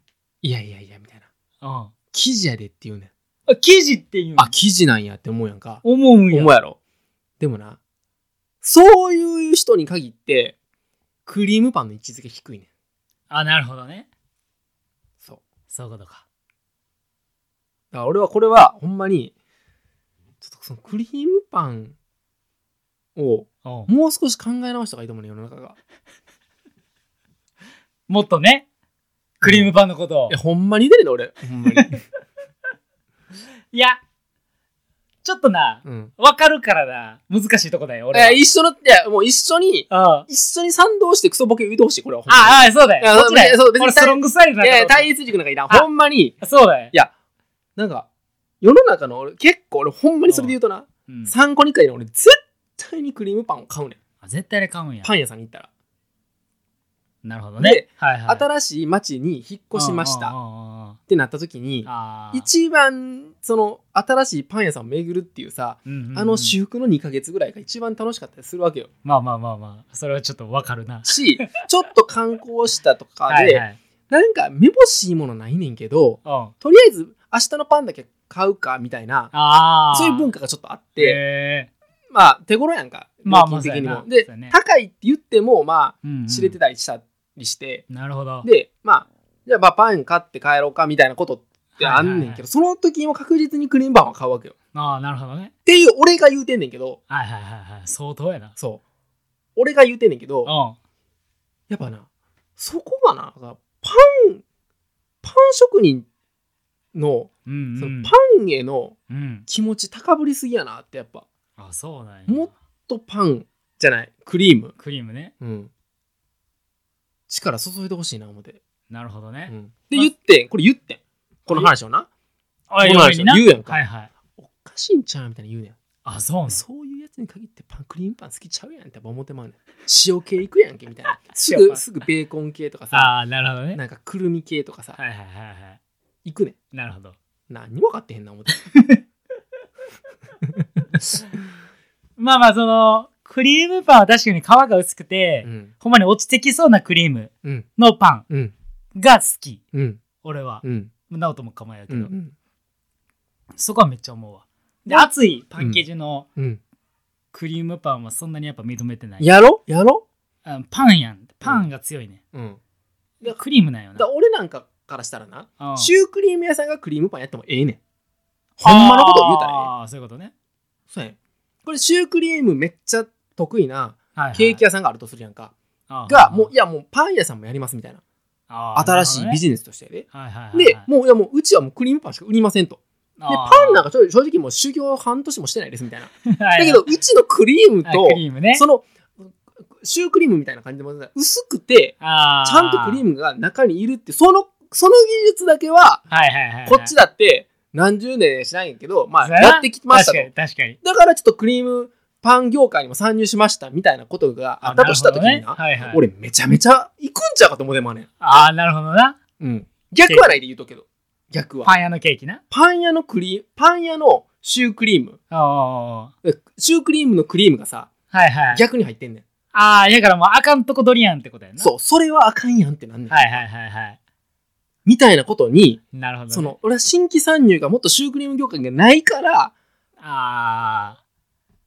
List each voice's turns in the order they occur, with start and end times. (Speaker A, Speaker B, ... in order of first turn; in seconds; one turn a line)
Speaker A: 0.4-1.3
Speaker B: 1.6-1.9
Speaker A: 2.1-3.1
Speaker B: 3.5-4.5
Speaker A: 4.4-6.8
Speaker B: 5.8-6.5
Speaker A: 7.4-7.8
Speaker A: 8.6-10.6
Speaker A: 11.3-12.7
Speaker B: 13.3-14.1
Speaker B: 15.7-16.2
Speaker A: 17.9-19.3
Speaker A: 20.4-22.0
Speaker A: 23.2-25.8
Speaker B: 23.6-23.9
Speaker B: 28.1-28.7
Speaker B: 29.4-30.4
Speaker A: 29.4-29.7
Speaker A: 30.3-32.0
Speaker B: 33.7-34.0
Speaker B: 35.2-38.4
Speaker A: 35.9-36.1
Speaker A: 38.1-47.1
Speaker B: 39.9-40.3
Speaker B: 42.3-45.1
Speaker B: 46.4-46.9
Speaker A: 47.8-48.1
Speaker A: 48.6-54.0
Speaker B: 50.3-50.5
Speaker B: 51.1-51.3
Speaker B: 54.2-55.1
Speaker A: 55.0-55.7
Speaker B: 57.2-58.5
Speaker A: 57.6-60.4
Speaker B: 59.7-61.0
Speaker A: 61.1-68.9
Speaker B: 61.9-62.5
Speaker B: 65.8-66.6
Speaker B: 69.0-71.5
Speaker A: 71.1-79.3
Speaker B: 73.3-73.8
Speaker B: 76.2-76.5
Speaker B: 79.3-80.3
Speaker A: 79.9-81.2
Speaker B: 81.0-81.7
Speaker A: 82.1-87.9
Speaker B: 83.3-84.5
Speaker B: 86.0-86.6
Speaker B: 87.9-88.5
Speaker A: 88.4-94.5
Speaker B: 91.8-92.4
Speaker B: 94.7-95.5
Speaker A: 95.7-97.0
Speaker B: 97.1-98.5
Speaker A: 98.6-98.8
Speaker A: 99.6-100.5
Speaker B: 100.5-100.8
Speaker A: 101.7-102.1
Speaker A: 102.6-104.4
Speaker A: 105.2-106.1
Speaker A: 106.9-109.0
Speaker B: 107.5-108.1
Speaker B: 109.1-109.5
Speaker A: 109.5-111.3
Speaker B: 111.6-112.5
Speaker A: 112.3-114.8
Speaker B: 114.8-115.3
Speaker A: 115.4-115.7
Speaker A: 117.3-118.6
Speaker B: 118.9-120.1
Speaker A: 119.5-122.1
Speaker B: 122.7-124.1
Speaker A: 122.8-123.8
Speaker A: 124.4-125.8
Speaker B: 126.0-126.6
Speaker A: 126.5-133.1
Speaker B: 131.3-131.8
Speaker B: 132.9-133.8
Speaker A: 133.7-135.0
Speaker B: 135.0-135.8
Speaker A: 136.2-136.6
Speaker B: 136.7-137.2
Speaker A: 137.5-138.6
Speaker B: 138.5-139.0
Speaker B: 142.2-148.3
Speaker A: 145.4-145.7
Speaker B: 149.0-149.6
Speaker A: 149.7-150.0
Speaker B: 150.2-152.1
Speaker A: 150.6-150.9
Speaker A: 151.9-152.3
Speaker B: 153.6-156.3
Speaker A: 154.9-155.8
Speaker B: 157.3-159.3
Speaker A: 159.2-160.0
Speaker B: 160.4-162.2
Speaker A: 161.4-161.7
Speaker A: 162.3-162.6
Speaker B: 163.2-164.1
Speaker A: 164.0-167.8
Speaker B: 165.6-165.9
Speaker B: 168.6-170.3
Speaker A: 168.6-169.7
Speaker A: 170.9-175.5
Speaker B: 174.2-174.6
Speaker B: 175.9-176.5
Speaker A: 176.1-178.0
Speaker B: 178.5-179.4
Speaker A: 178.8-196.1
Speaker B: 180.1-180.9
Speaker B: 183.2-183.9
Speaker B: 186.3-186.9
Speaker B: 187.8-188.6
Speaker B: 192.0-193.0
Speaker B: 196.1-196.9
Speaker A: 196.7-200.3
Speaker B: 199.2-200.8
Speaker A: 200.8-208.1
Speaker B: 204.6-206.0
Speaker B: 208.2-209.2
Speaker A: 209.4-211.7
Speaker B: 210.1-210.4
Speaker B: 211.7-212.4
Speaker A: 212.5-215.2
Speaker B: 215.3-216.1
Speaker A: 216.2-217.9
Speaker B: 218.1-218.6
Speaker A: 218.5-219.2
Speaker B: 219.5-221.7
Speaker A: 221.6-223.4
Speaker B: 223.1-224.0
Speaker A: 224.9-229.5
Speaker B: 225.9-226.5
Speaker B: 230.0-231.0